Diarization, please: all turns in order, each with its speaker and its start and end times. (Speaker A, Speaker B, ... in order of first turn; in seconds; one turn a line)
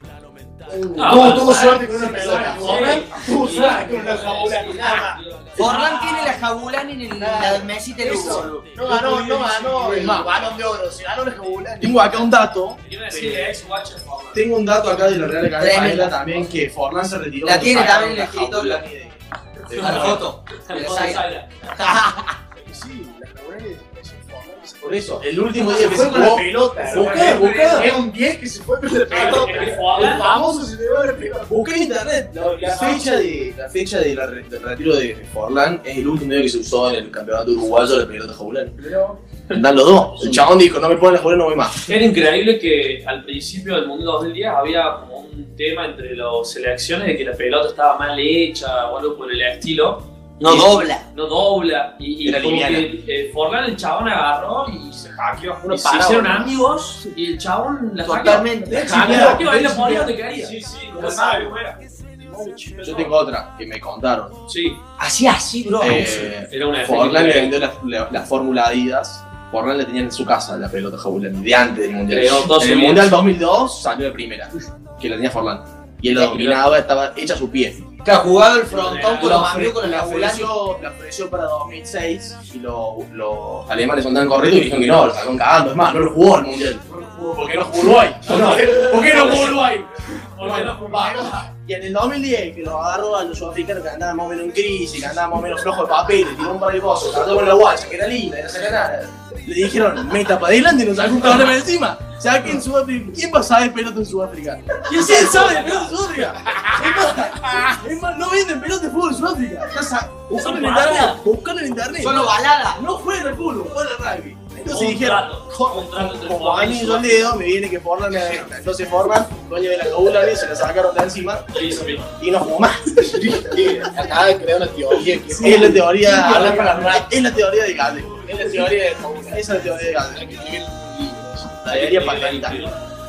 Speaker A: 0.7-5.2
Speaker B: 0.9-6.3
Speaker C: 5.6-8.6
Speaker A: 7.2-12.2
Speaker D: 8.8-10.5
Speaker E: 9.9-10.3
Speaker E: 11.8-12.8
Speaker B: 12.8-14.4
Speaker C: 13.1-13.5
Speaker E: 14.3-20.3
Speaker C: 15.6-16.2
Speaker C: 17.4-18.8
Speaker B: 19.7-21.7
Speaker C: 19.8-22.4
Speaker A: 22.5-33.4
Speaker E: 24.8-27.9
Speaker D: 26.8-27.9
Speaker B: 29.1-30.3
Speaker D: 29.1-30.3
Speaker E: 31.4-38.8
Speaker D: 32.4-32.9
Speaker E: 39.5-41.8
Speaker A: 40.2-40.4
Speaker B: 41.8-60.6
Speaker C: 50.4-51.0
Speaker E: 50.4-50.8
Speaker E: 52.2-52.9
Speaker E: 55.7-56.5
Speaker A: 55.8-56.3
Speaker C: 58.0-59.0
Speaker E: 58.2-60.0
Speaker A: 58.7-59.5
Speaker D: 60.2-61.8
Speaker A: 61.0-61.6
Speaker A: 62.1-63.2
Speaker E: 62.8-64.4
Speaker B: 64.5-64.8
Speaker C: 65.0-66.3
Speaker E: 65.8-77.8
Speaker B: 66.5-67.6
Speaker B: 72.1-73.2
Speaker B: 76.2-76.6
Speaker C: 78.0-80.5
Speaker B: 78.7-79.5
Speaker E: 79.1-123.4
Speaker D: 86.9-87.4
Speaker B: 88.2-89.5
Speaker B: 90.4-91.5
Speaker B: 104.8-105.9
Speaker A: 106.5-107.7
Speaker B: 110.3-111.2
Speaker C: 112.0-112.8
Speaker B: 114.7-117.4
Speaker B: 121.5-122.1
Speaker A: 123.1-126.0
Speaker E: 125.4-130.3
Speaker B: 126.2-126.9
Speaker A: 128.2-131.6
Speaker E: 131.6-132.6
Speaker B: 131.7-132.8